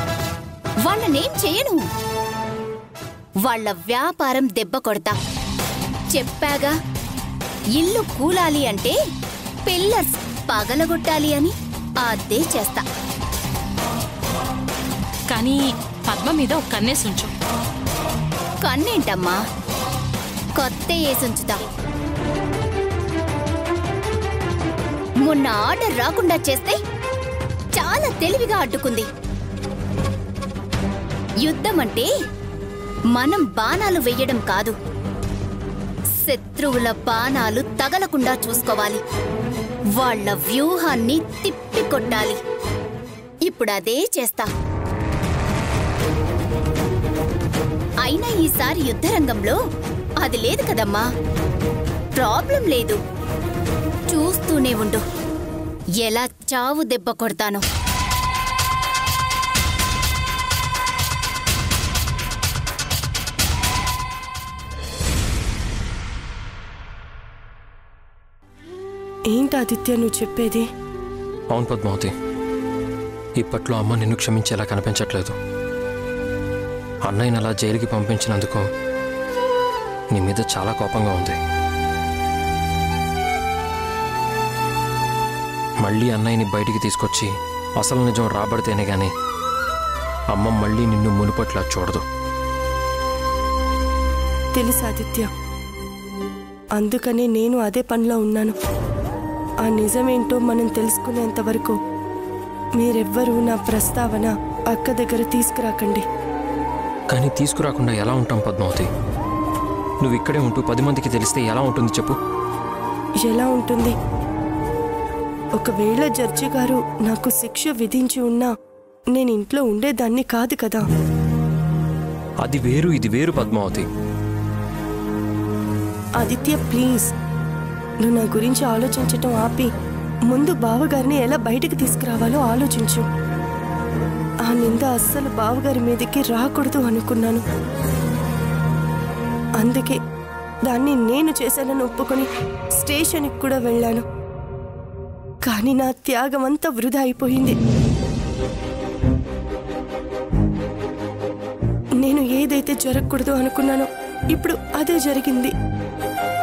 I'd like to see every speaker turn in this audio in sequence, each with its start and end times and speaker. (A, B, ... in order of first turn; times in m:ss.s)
0:00.8-0:01.8 A
0:03.5-0:05.1 A
0:06.1-0:06.7 A
0:07.8-0:08.9 A
0:09.7-0:11.5 A
0:12.0-0:12.8 A
0:15.3-0:17.3 B
0:18.6-0:19.4 A
0:20.6-0:21.6 A
0:25.2-0:26.8 A
0:27.8-0:29.1 A
0:31.4-0:32.1 A
0:33.1-0:34.7 A
0:36.2-0:39.0 A
0:40.0-0:42.4 A
0:43.5-0:44.5 A
0:48.0-0:49.6 A
0:50.2-0:51.0 A
0:52.2-0:53.0 A
0:54.1-0:55.0 A
0:56.0-0:57.6 A
1:09.3-1:10.6 C
1:11.5-1:12.1 D
1:13.4-1:15.4 D
1:17.1-1:18.6 D
1:20.1-1:21.4 D
1:25.8-1:29.1 D
1:30.3-1:32.0 D
1:34.5-1:35.3 C
1:36.8-1:38.5 C
1:39.6-1:41.8 C
1:42.8-1:46.0 C
1:47.1-1:48.9 D
1:50.0-1:52.2 D
1:53.2-1:53.9 C
1:55.6-1:58.5 C
1:59.1-2:00.8 C
2:02.4-2:03.8 D
2:06.2-2:07.1 C
2:08.0-2:09.7 C
2:10.3-2:13.0 C
2:14.4-2:17.4 C
2:19.6-2:20.0 C
2:20.7-2:24.0 C
2:25.4-2:27.6 C
2:32.0-2:35.5 C